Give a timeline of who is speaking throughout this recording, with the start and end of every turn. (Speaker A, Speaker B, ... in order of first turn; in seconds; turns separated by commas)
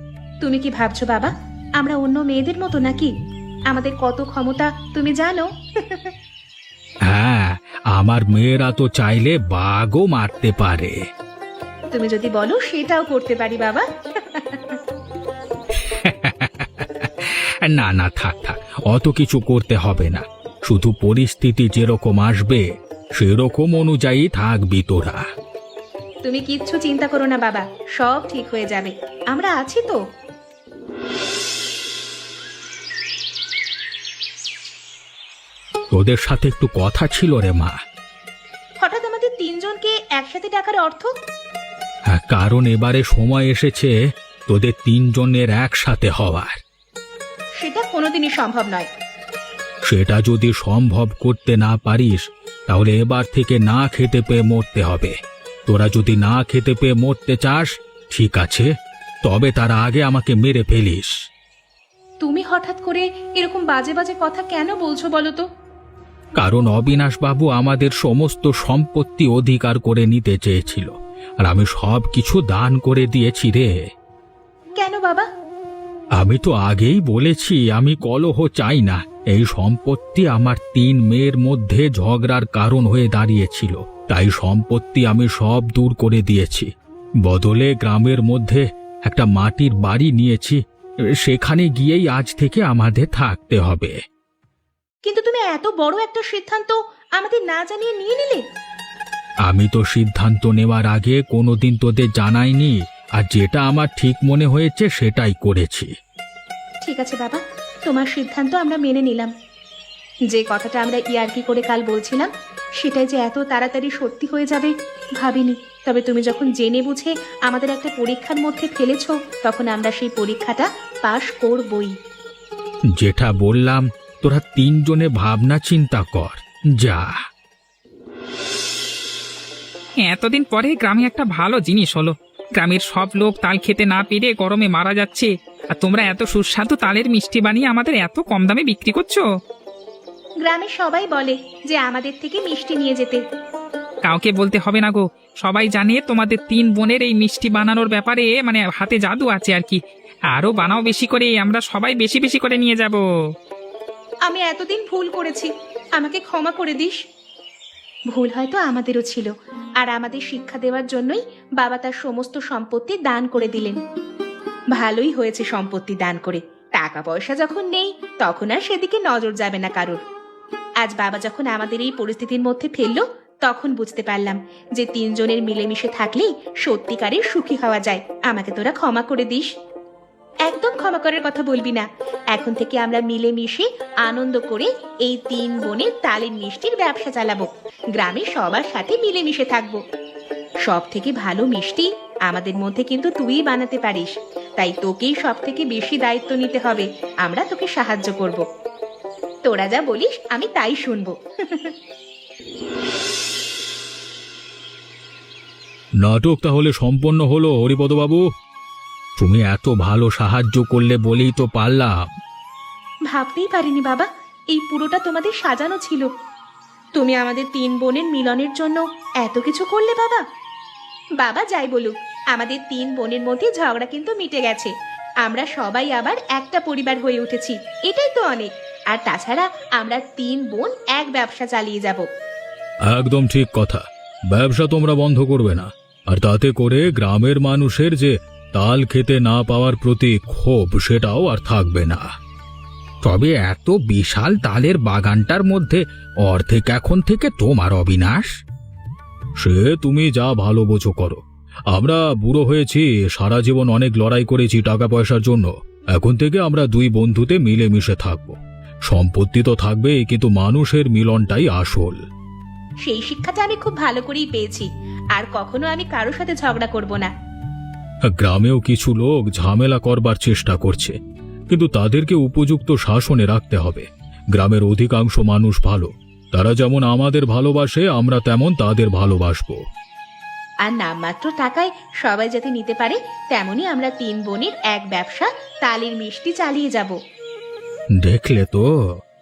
Speaker A: 0.4-3.1, Speaker A: 3.7-6.1, Speaker B: 7.1-10.9, Speaker A: 11.9-14.8, Speaker B: 15.8-22.6, Speaker B: 23.2-25.2, Speaker A: 26.2-30.0, Speaker B: 35.9-37.7, Speaker A: 38.8-41.1, Speaker B: 42.1-43.9, Speaker B: 44.5-46.6, Speaker A: 47.6-48.9, Speaker B: 49.9-55.1, Speaker B: 55.7-58.7, Speaker B: 59.2-61.1, Speaker A: 62.2-65.4, Speaker B: 66.4-70.9, Speaker B: 71.4-73.7, Speaker A: 74.8-75.3, Speaker B: 76.2-86.7, Speaker B: 87.2-90.6, Speaker B: 91.2-93.9, Speaker A: 95.0-98.4, Speaker B: 99.5-105.9, Speaker A: 106.8-109.3, Speaker A: 110.3-121.9, Speaker B: 122.9-127.1, Speaker C: 130.0-139.2, Speaker A: 140.4-143.2, Speaker C: 144.0-149.8, Speaker C: 150.3-153.0, Speaker A: 154.3-157.0, Speaker A: 158.1-163.8, Speaker A: 164.7-170.0, Speaker A: 170.8-179.5, Speaker A: 180.5-189.8, Speaker A: 190.6-198.4, Speaker A: 199.4-201.7, Speaker B: 206.0-208.2, Speaker B: 209.2-212.1, Speaker A: 213.1-216.1, Speaker A: 216.9-220.2, Speaker A: 221.2-224.7, Speaker A: 225.2-232.1, Speaker B: 232.9-242.0, Speaker B: 243.0-248.3, Speaker B: 249.4-251.2, Speaker B: 251.7-258.4, Speaker B: 258.9-262.0, Speaker A: 262.8-267.1, Speaker B: 268.1-270.9, Speaker B: 271.5-279.6, Speaker A: 280.6-286.9, Speaker B: 288.0-288.7